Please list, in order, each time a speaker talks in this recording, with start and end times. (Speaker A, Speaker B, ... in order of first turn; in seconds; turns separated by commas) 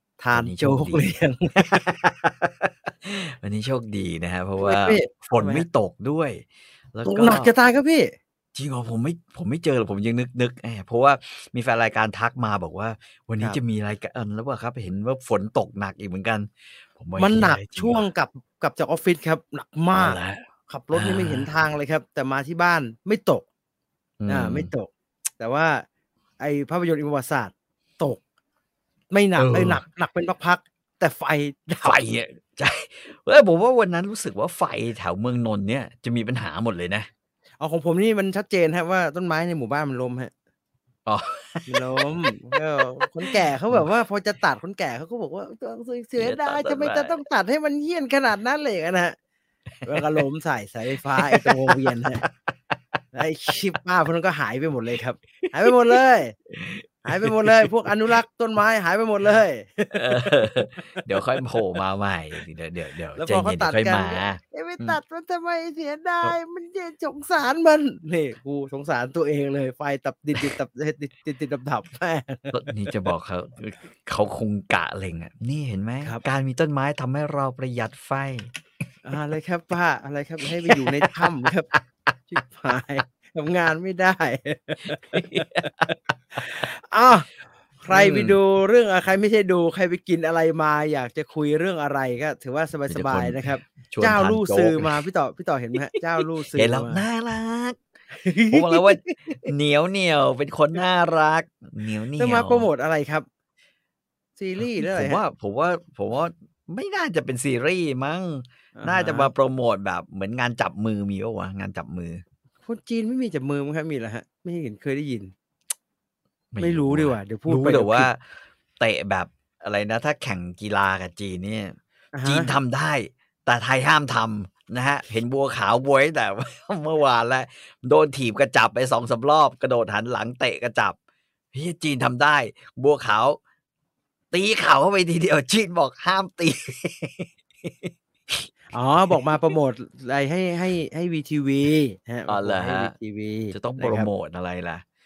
Speaker A: 0.2-1.8, Speaker B: 0.3-7.5, Speaker A: 4.6-5.6, Speaker A: 7.0-8.1, Speaker B: 8.5-18.0, Speaker A: 17.2-23.4, Speaker B: 19.9-21.5, Speaker B: 24.2-24.7, Speaker A: 24.3-24.9, Speaker A: 25.4-25.8, Speaker A: 26.4-28.2, Speaker A: 29.1-32.0, Speaker B: 29.4-29.8, Speaker B: 31.8-37.1, Speaker A: 37.6-40.3, Speaker B: 41.0-43.9, Speaker A: 41.7-49.1, Speaker B: 46.2-47.2, Speaker B: 49.9-50.2, Speaker A: 49.9-52.2, Speaker B: 51.2-52.5, Speaker A: 53.1-56.4, Speaker B: 55.5-55.7, Speaker B: 56.5-57.7, Speaker A: 57.0-60.3, Speaker B: 59.9-65.0, Speaker A: 61.2-61.5, Speaker A: 63.1-73.0, Speaker B: 72.5-78.5, Speaker A: 79.0-81.7, Speaker B: 80.6-81.8, Speaker A: 82.3-87.3, Speaker B: 85.0-86.6, Speaker A: 87.8-97.0, Speaker B: 87.9-88.4, Speaker B: 92.9-94.9, Speaker B: 96.5-97.8, Speaker A: 98.1-99.5, Speaker B: 98.5-102.7, Speaker A: 102.2-103.2, Speaker A: 104.4-105.2, Speaker B: 104.6-112.2, Speaker A: 108.8-109.3, Speaker A: 112.6-115.3, Speaker B: 116.5-130.9, Speaker A: 116.6-118.1, Speaker A: 122.1-122.5, Speaker B: 131.5-133.4, Speaker B: 134.3-138.5, Speaker A: 138.7-144.1, Speaker B: 142.3-142.9, Speaker B: 143.5-144.8